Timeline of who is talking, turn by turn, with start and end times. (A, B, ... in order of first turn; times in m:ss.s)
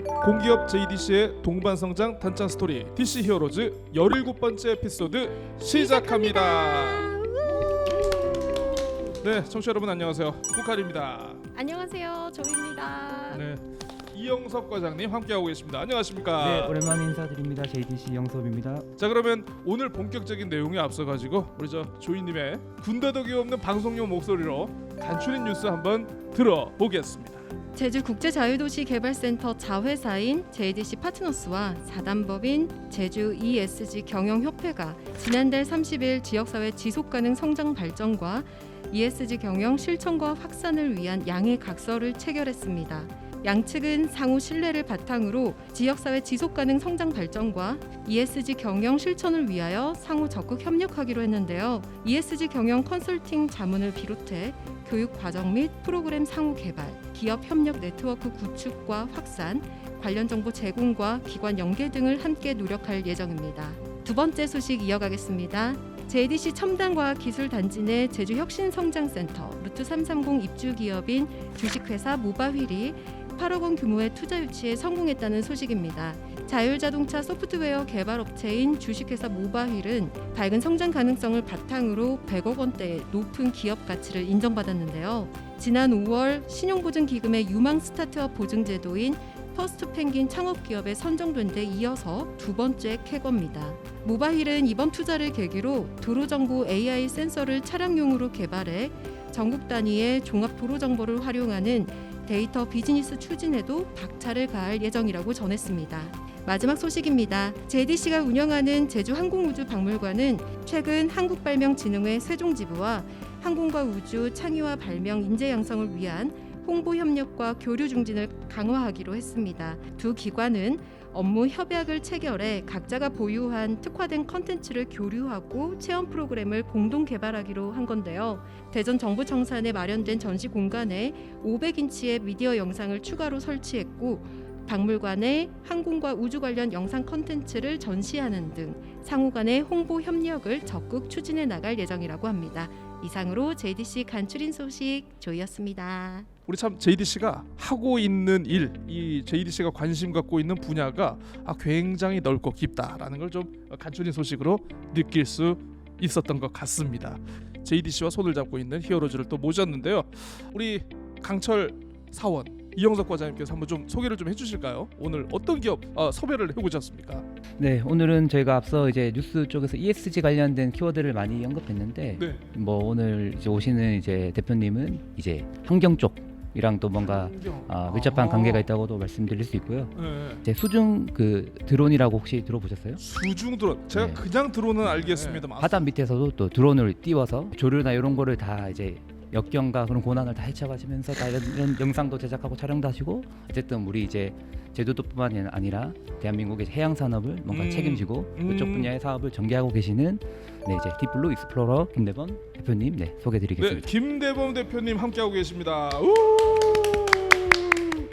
0:00.2-0:07.2 A
0:05.7-0:08.6 B
0:09.2-0:11.4 A
0:11.5-0:13.4 B
0:13.3-0:16.8 A
0:16.4-0:18.9 C
0:19.0-0:27.5 A
0:27.7-2:26.3 B
2:26.5-2:47.2 A
2:47.6-2:59.9 C
2:52.1-2:52.4 A
2:57.0-2:58.7 A
2:59.9-3:00.4 A
3:00.4-3:03.0 C
3:03.0-3:05.9 A
3:03.9-3:04.2 C
3:04.8-3:23.9 C
3:17.5-3:18.9 A
3:23.6-3:27.8 A